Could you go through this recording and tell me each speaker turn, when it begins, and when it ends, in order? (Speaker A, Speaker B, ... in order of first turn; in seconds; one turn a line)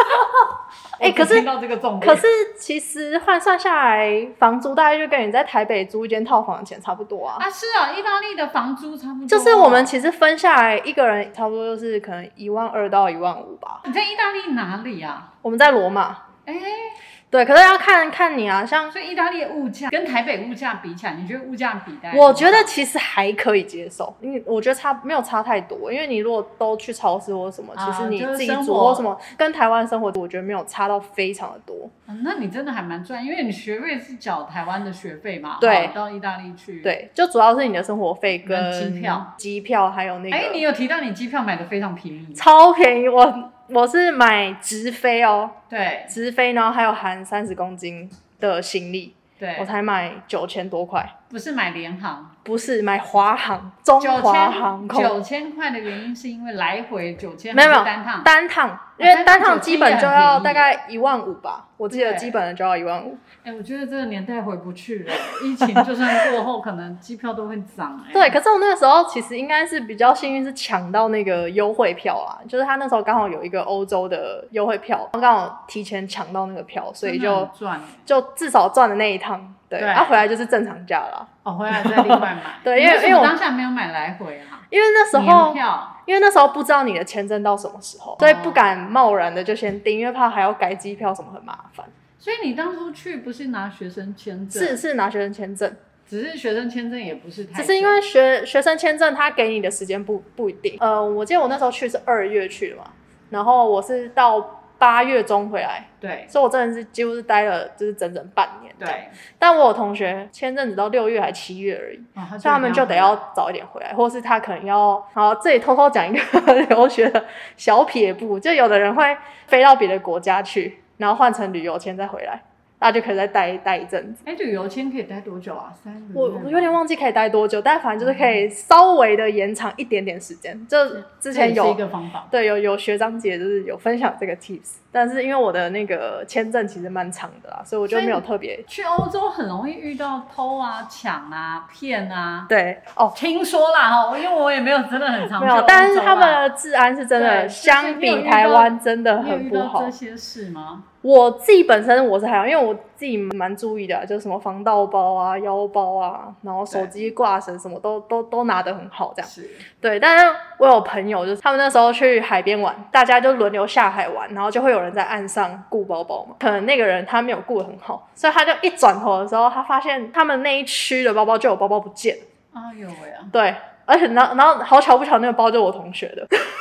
Speaker A: 1.0-2.2
Speaker B: 1.0-1.5
Speaker B: 2.0-7.5
Speaker A: 7.4-9.9
Speaker B: 9.3-13.8
Speaker A: 13.8-15.3
Speaker B: 15.4-16.2
Speaker A: 16.4-16.9
Speaker B: 17.3-18.9
Speaker A: 18.9-22.7
Speaker B: 22.1-31.9
Speaker A: 27.8-29.1
Speaker A: 32.1-37.0
Speaker B: 35.6-36.0
Speaker B: 36.8-40.6
Speaker A: 38.4-39.3
Speaker A: 40.3-42.4
Speaker B: 42.4-45.5
Speaker A: 45.7-46.1
Speaker B: 46.1-51.1
Speaker A: 49.4-49.7
Speaker A: 51.3-52.3
Speaker B: 52.4-55.2
Speaker A: 54.0-58.3
Speaker B: 57.5-63.2
Speaker A: 59.0-60.7
Speaker A: 61.9-62.4
Speaker A: 63.4-68.4
Speaker B: 68.1-77.5
Speaker A: 77.0-78.0
Speaker B: 78.0-83.4
Speaker A: 79.8-80.2
Speaker A: 81.4-86.0
Speaker B: 84.7-91.9
Speaker A: 88.2-88.6
Speaker A: 92.2-94.8
Speaker B: 94.5-95.8
Speaker A: 96.1-98.0
Speaker B: 97.5-124.2
Speaker A: 106.0-106.3
Speaker A: 108.8-109.1
Speaker A: 112.2-113.2
Speaker A: 124.2-126.8
Speaker B: 126.1-131.8
Speaker A: 128.0-128.3
Speaker A: 131.3-132.3
Speaker B: 132.3-138.7
Speaker A: 137.9-142.5
Speaker B: 142.5-143.2
Speaker A: 143.1-146.4
Speaker B: 145.3-149.9
Speaker A: 147.1-150.9
Speaker B: 151.0-159.3
Speaker A: 156.7-157.1
Speaker A: 159.2-159.6
Speaker B: 159.8-172.2
Speaker A: 172.5-173.3
Speaker B: 173.3-176.3